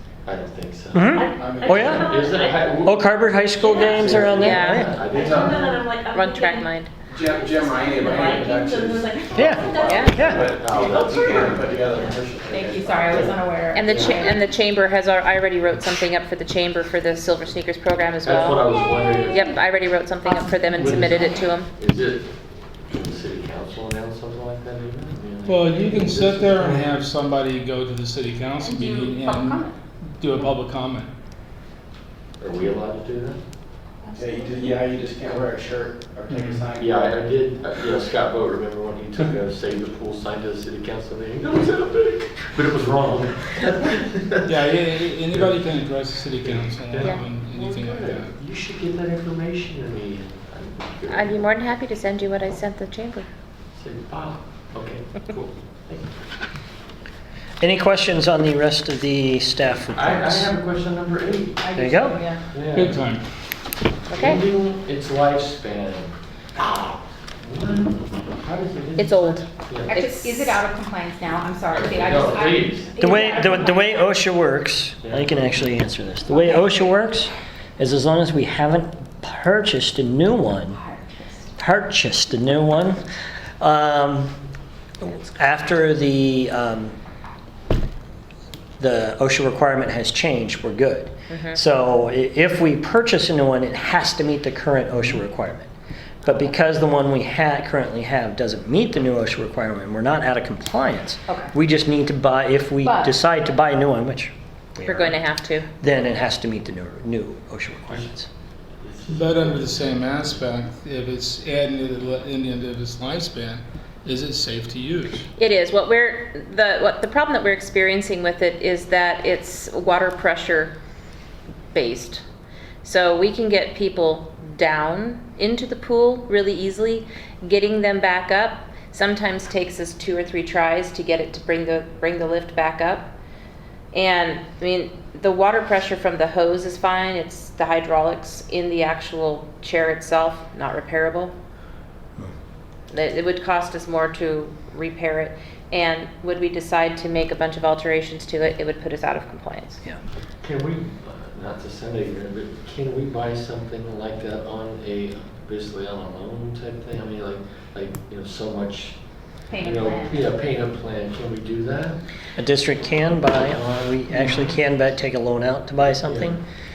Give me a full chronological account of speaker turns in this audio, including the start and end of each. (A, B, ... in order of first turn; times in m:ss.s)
0:00.2-0:03.0 A
0:00.9-0:02.2 B
0:01.1-0:02.6 C
0:01.4-0:02.1 D
0:02.8-0:05.0 B
0:03.6-0:05.9 A
0:03.7-0:04.2 C
0:04.4-0:04.9 E
0:05.1-0:05.7 D
0:05.1-0:06.7 C
0:06.0-0:06.9 E
0:07.1-0:13.4 D
0:07.2-0:10.4 C
0:09.4-0:10.4 B
0:09.8-0:10.2 E
0:09.9-0:12.5 A
0:12.5-0:14.4 F
0:13.1-0:14.2 A
0:13.7-0:21.7 E
0:18.2-0:19.4 A
0:20.2-0:21.4 F
0:20.8-0:27.0 A
0:25.4-0:31.1 G
0:28.6-0:29.8 F
0:32.4-0:33.4 A
0:34.0-0:34.8 F
0:34.2-0:37.2 D
0:36.3-0:36.7 G
0:36.8-0:44.5 A
0:44.4-0:48.3 G
0:45.3-0:45.6 A
0:46.4-0:51.5 A
0:51.1-0:53.3 E
0:53.8-0:56.1 A
0:57.6-1:00.5 B
1:00.0-1:01.9 A
1:01.6-1:02.4 F
1:01.8-1:02.2 B
1:02.5-1:03.0 A
1:02.7-1:03.2 G
1:04.1-1:04.4 E
1:04.1-1:10.0 A
1:09.0-1:10.6 E
1:09.9-1:14.0 F
1:11.7-1:13.4 A
1:13.0-1:20.8 B
1:15.0-1:15.3 A
1:16.4-1:16.6 F
1:20.7-1:21.5 F
1:21.6-1:23.0 B
1:23.6-1:24.4 B
1:25.0-1:27.0 B
1:28.8-1:35.7 B
1:31.3-1:31.6 E
1:36.2-1:45.2 B
1:41.3-1:41.5 F
1:42.8-1:43.1 F
1:44.8-1:45.7 E
1:45.8-1:48.3 B
1:48.8-1:50.4 A
1:49.1-1:55.3 G
1:55.4-2:00.8 E
2:01.7-2:02.2 E
2:02.8-2:13.1 E
2:13.9-2:21.3 E
2:22.9-2:29.8 E
2:30.4-2:39.0 A
2:39.5-2:40.3 F
2:39.6-2:42.0 A
2:42.4-2:46.4 B
2:44.1-2:44.5 A
2:46.1-2:46.4 A